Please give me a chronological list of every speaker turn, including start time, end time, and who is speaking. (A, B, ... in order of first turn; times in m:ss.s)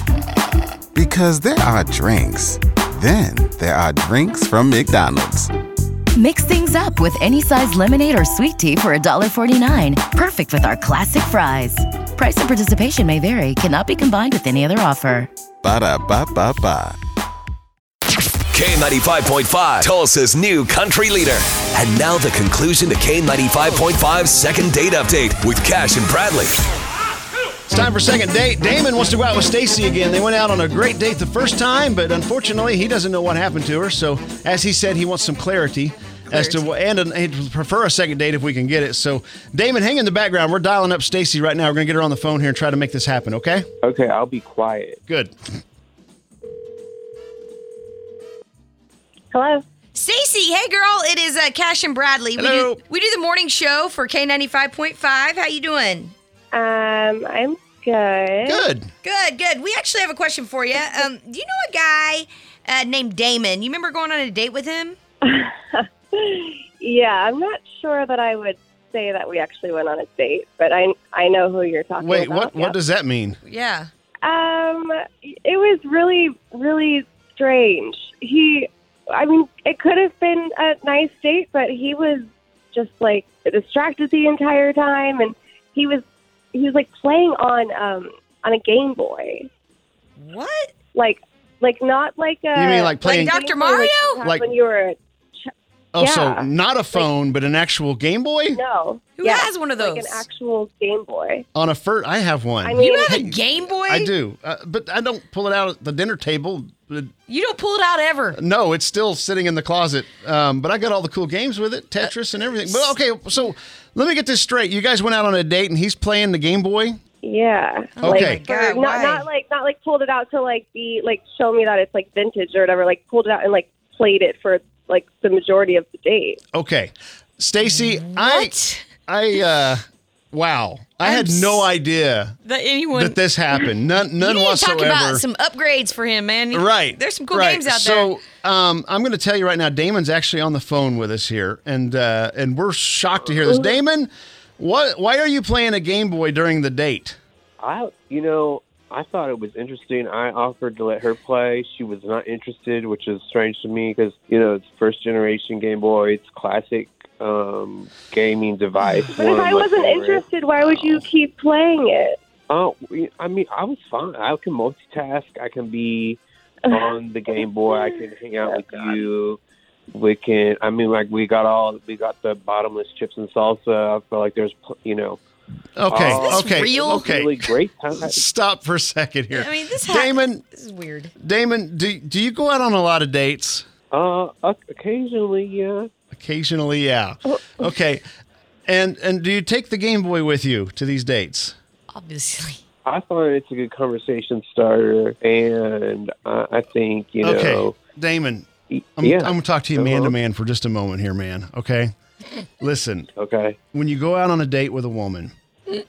0:00.9-0:05.5 A
0:06.2-0:15.3 B
0:15.6-0:17.0 A
0:18.5-0:26.5 C
0:27.7-0:43.7 D
0:36.3-0:36.7 E
0:43.8-0:45.0 F
0:45.1-0:45.3 D
0:49.3-0:49.6 G
0:49.9-0:56.1 E
0:52.4-0:52.8 D
0:56.5-0:58.7 G
0:58.4-0:58.9 D
0:59.0-1:05.0 E
1:05.2-1:12.8 G
1:12.0-1:13.4 D
1:13.4-1:13.9 E
1:14.2-1:26.0 G
1:26.5-1:29.5 G
1:30.2-1:30.7 E
1:30.9-1:37.1 G
1:32.5-1:33.4 D
1:33.1-1:34.2 E
1:34.2-1:34.5 D
1:35.9-1:38.6 D
1:38.5-1:41.4 G
1:39.2-1:40.2 E
1:41.5-1:47.1 D
1:42.6-1:43.2 G
1:42.8-1:44.1 E
1:47.3-1:48.4 E
1:48.3-1:57.0 D
1:52.6-1:52.9 E
1:57.2-2:06.4 G
1:58.0-1:59.2 E
1:58.0-1:58.4 D
2:06.5-2:12.3 D
2:07.7-2:08.8 E
2:11.0-2:11.7 E
2:12.4-2:13.2 E
2:12.9-2:15.2 D
2:14.2-2:18.2 E
2:16.5-2:27.2 D
2:27.6-2:41.0 F
2:39.2-2:42.2 G
2:42.5-2:49.4 F
2:46.7-2:49.0 G
2:49.9-2:55.2 F
2:55.8-2:57.4 D
2:55.9-2:58.2 F
2:56.1-2:57.0 E
2:58.0-3:00.4 D
2:59.3-3:01.1 E
3:01.2-3:03.6 D
3:03.9-3:05.9 F
3:06.1-3:08.0 D
3:08.7-3:11.5 D
3:11.9-3:12.6 E
3:12.8-3:17.7 F
3:17.2-3:21.9 D
3:18.7-3:20.1 F
3:22.6-3:23.1 D
3:23.2-3:23.6 F
3:23.7-3:25.7 D